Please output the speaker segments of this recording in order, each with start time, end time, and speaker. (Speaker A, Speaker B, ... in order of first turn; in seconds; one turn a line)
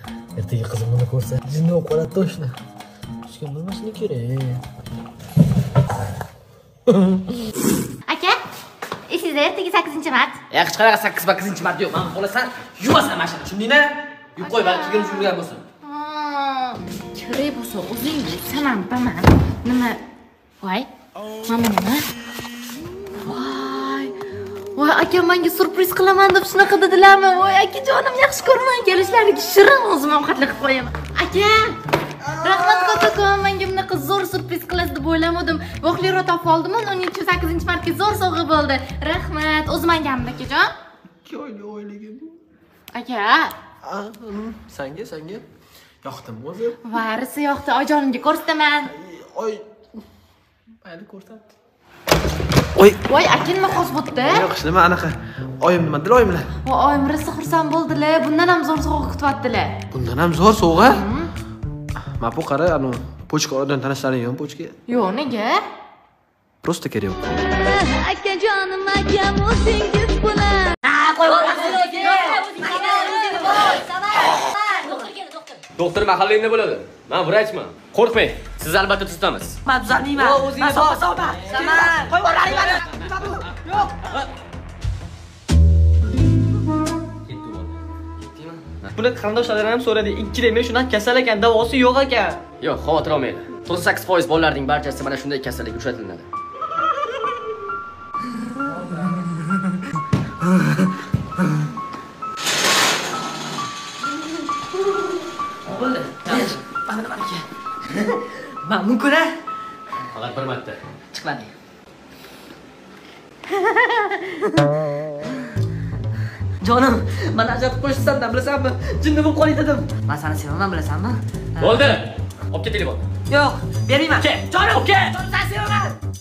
Speaker A: 0.3-2.5
Speaker A: 3.3-4.6
Speaker B: 8.1-8.4
Speaker B: 9.1-10.4
Speaker A: 10.6-15.6
Speaker C: 10.9-11.1
Speaker C: 11.7-12.2
Speaker B: 14.4-20.0
Speaker B: 20.6-20.9
Speaker B: 21.5-22.0
Speaker B: 23.2-24.1
Speaker B: 24.8-40.7
Speaker A: 32.3-33.1
Speaker A: 41.2-42.3
Speaker B: 42.9-43.5
Speaker A: 43.8-45.4
Speaker A: 46.0-46.8
Speaker B: 46.8-48.9
Speaker A: 48.9-49.6
Speaker A: 50.8-51.4
Speaker B: 53.1-54.5
Speaker A: 54.2-56.5
Speaker B: 56.6-59.8
Speaker A: 59.9-61.0
Speaker B: 60.8-61.3
Speaker A: 62.2-64.7
Speaker B: 64.9-65.6
Speaker A: 66.6-67.5
Speaker D: 67.6-70.7
Speaker E: 70.8-73.7
Speaker D: 71.9-73.9
Speaker C: 75.8-79.6
Speaker E: 79.7-83.1
Speaker F: 80.2-81.0
Speaker C: 87.3-87.7
Speaker C: 88.2-88.9
Speaker F: 89.0-92.4
Speaker C: 92.6-96.3
Speaker E: 105.7-109.3
Speaker C: 110.1-110.8
Speaker E: 111.1-111.5
Speaker E: 113.6-114.4
Speaker E: 116.6-122.0
Speaker C: 121.6-123.0
Speaker E: 123.3-125.9
Speaker C: 124.2-125.4